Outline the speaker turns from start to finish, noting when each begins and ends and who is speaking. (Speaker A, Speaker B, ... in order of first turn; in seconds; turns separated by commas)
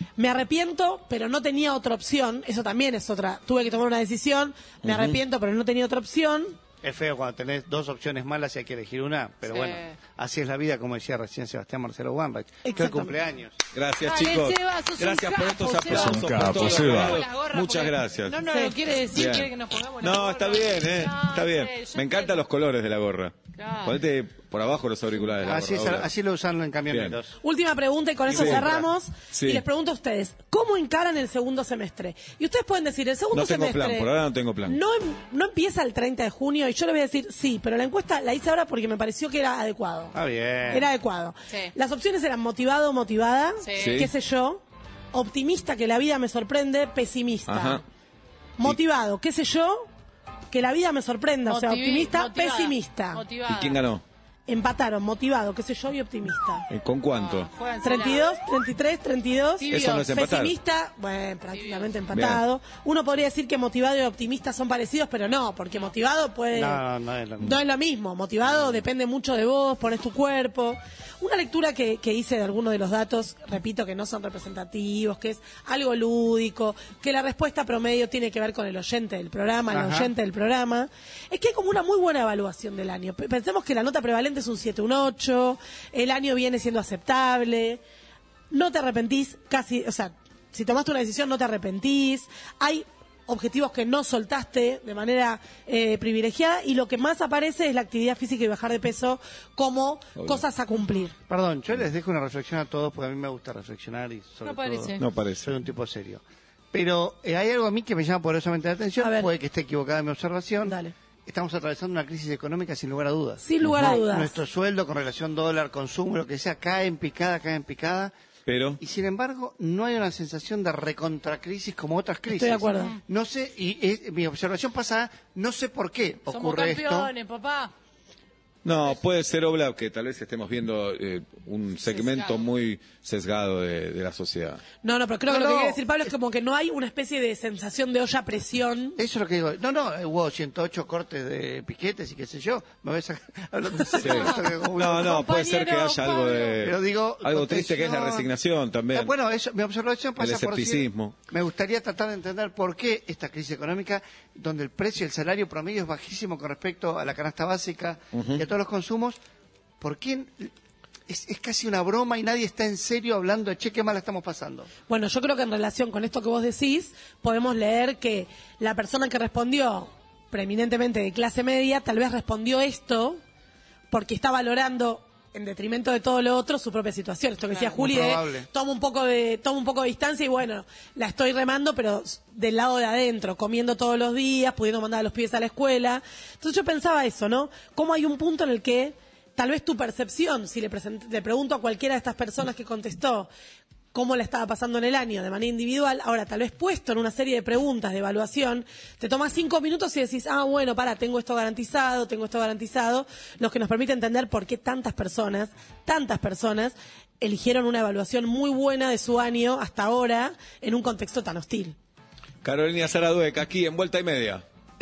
Speaker A: 0.2-6.6, Speaker B: 4.8-5.2, Speaker C: 6.8-13.6, Speaker D: 9.5-10.0, Speaker A: 12.6-13.1, Speaker B: 13.7-18.4, Speaker D: 14.0-22.4, Speaker A: 18.5-18.8, Speaker B: 19.1-26.1, Speaker D: 23.6-24.0, Speaker C: 25.4-27.3, Speaker B: 26.9-27.2, Speaker A: 27.4-34.1, Speaker C: 28.3-28.9, Speaker B: 28.3-28.7, Speaker B: 29.3-29.6, Speaker B: 33.3-34.8, Speaker A: 34.6-40.2, Speaker C: 40.1-40.9, Speaker A: 40.7-47.8, Speaker D: 43.6-44.0, Speaker B: 43.7-44.1, Speaker B: 47.5-47.8, Speaker A: 48.6-49.9, Speaker A: 50.5-53.2, Speaker D: 51.5-53.8, Speaker B: 53.5-54.0, Speaker A: 54.5-56.7, Speaker B: 56.7-57.5, Speaker D: 57.1-58.3, Speaker A: 57.8-66.8, Speaker D: 59.6-60.1, Speaker B: 59.7-60.5, Speaker D: 61.6-61.9, Speaker B: 62.1-62.4, Speaker C: 66.5-67.6, Speaker A: 67.4-87.8, Speaker C: 79.7-80.1, Speaker A: 88.5-101.2, Speaker B: 100.2-100.5, Speaker C: 101.3-106.2, Speaker D: 104.4-105.0, Speaker B: 105.0-105.5, Speaker C: 106.7-118.1, Speaker A: 109.0-109.3, Speaker A: 110.6-110.9, Speaker A: 113.4-114.4, Speaker B: 113.6-113.9, Speaker B: 118.5-118.8, Speaker C: 118.8-127.1, Speaker A: 122.3-122.9, Speaker D: 126.3-127.7, Speaker B: 128.6-134.6, Speaker D: 131.9-132.4, Speaker A: 134.8-139.0, Speaker C: 135.3-135.8, Speaker C: 139.0-145.2, Speaker B: 143.9-149.1, Speaker D: 144.9-146.6, Speaker C: 146.6-148.3, Speaker C: 148.9-159.2, Speaker B: 150.2-151.2, Speaker B: 158.1-158.5, Speaker C: 159.8-160.5, Speaker C: 161.1-164.7, Speaker A: 164.9-173.2, Speaker A: 173.9-193.3, Speaker C: 177.5-178.5, Speaker A: 193.9-211.8, Speaker B: 212.4-214.4